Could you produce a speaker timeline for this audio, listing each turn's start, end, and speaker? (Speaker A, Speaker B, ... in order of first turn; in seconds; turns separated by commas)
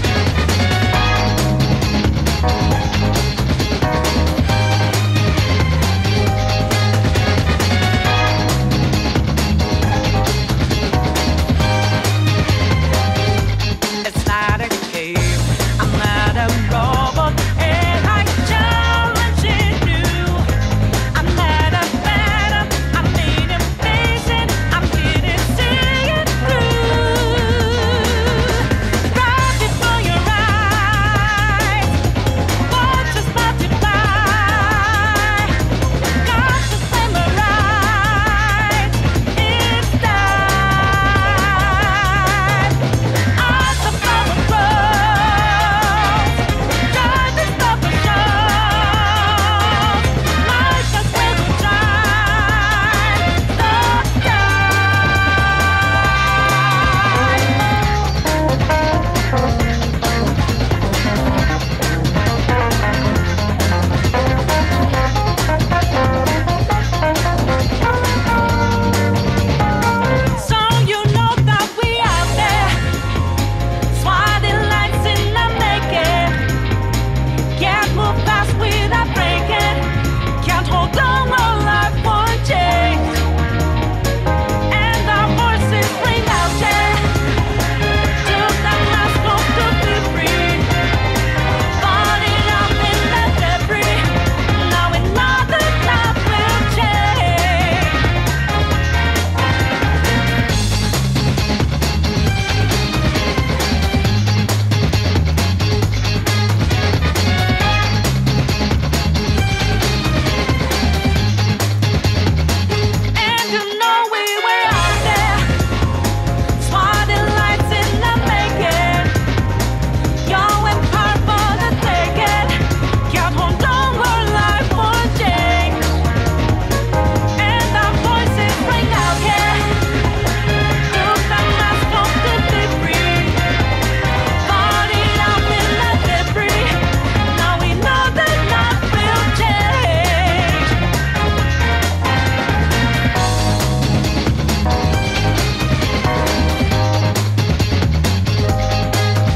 Speaker A: 14.0-20.6, Speaker A: 21.1-31.9, Speaker A: 32.6-55.3, Speaker A: 56.4-57.3, Speaker A: 70.3-72.9, Speaker A: 73.9-76.4, Speaker A: 77.5-83.2, Speaker A: 84.7-87.2, Speaker A: 88.2-90.7, Speaker A: 91.7-98.1, Speaker A: 113.1-115.6, Speaker A: 116.6-119.2, Speaker A: 120.2-126.0, Speaker A: 127.4-129.9, Speaker A: 130.8-133.5, Speaker A: 134.4-140.8